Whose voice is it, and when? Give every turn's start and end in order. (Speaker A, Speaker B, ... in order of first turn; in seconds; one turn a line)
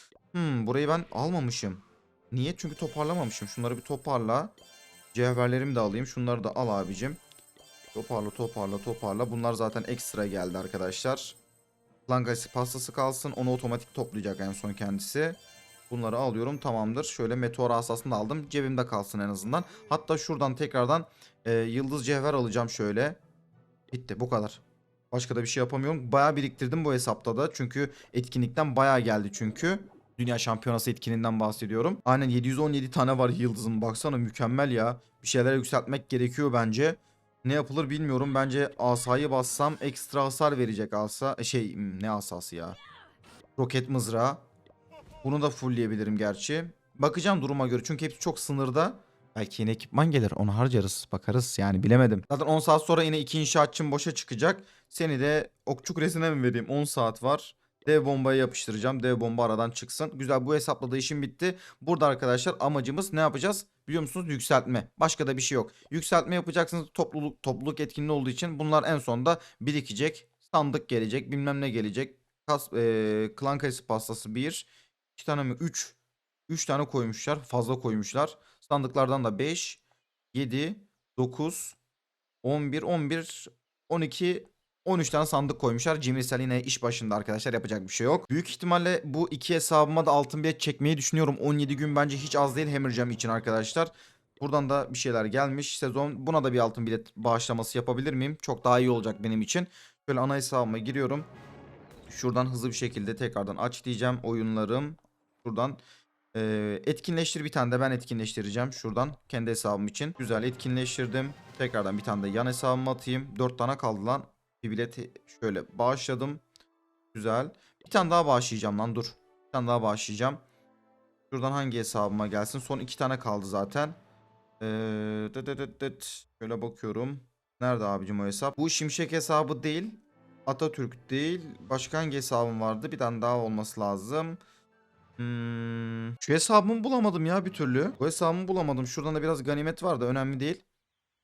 Speaker A: 0.3-4.5
Speaker A: 5.1-7.2
Speaker A: 7.9-11.4
Speaker A: 12.1-15.4
Speaker A: 15.9-23.2
Speaker A: 23.9-42.8
Speaker A: 43.6-44.4
Speaker A: 45.2-76.0
Speaker A: 76.5-79.8
Speaker A: 80.3-81.8
Speaker A: 82.4-101.3
Speaker A: 102.1-105.8
Speaker A: 106.3-116.4
Speaker A: 117.1-120.4
Speaker A: 121.3-124.0
Speaker A: 124.6-134.4
Speaker A: 135.2-140.6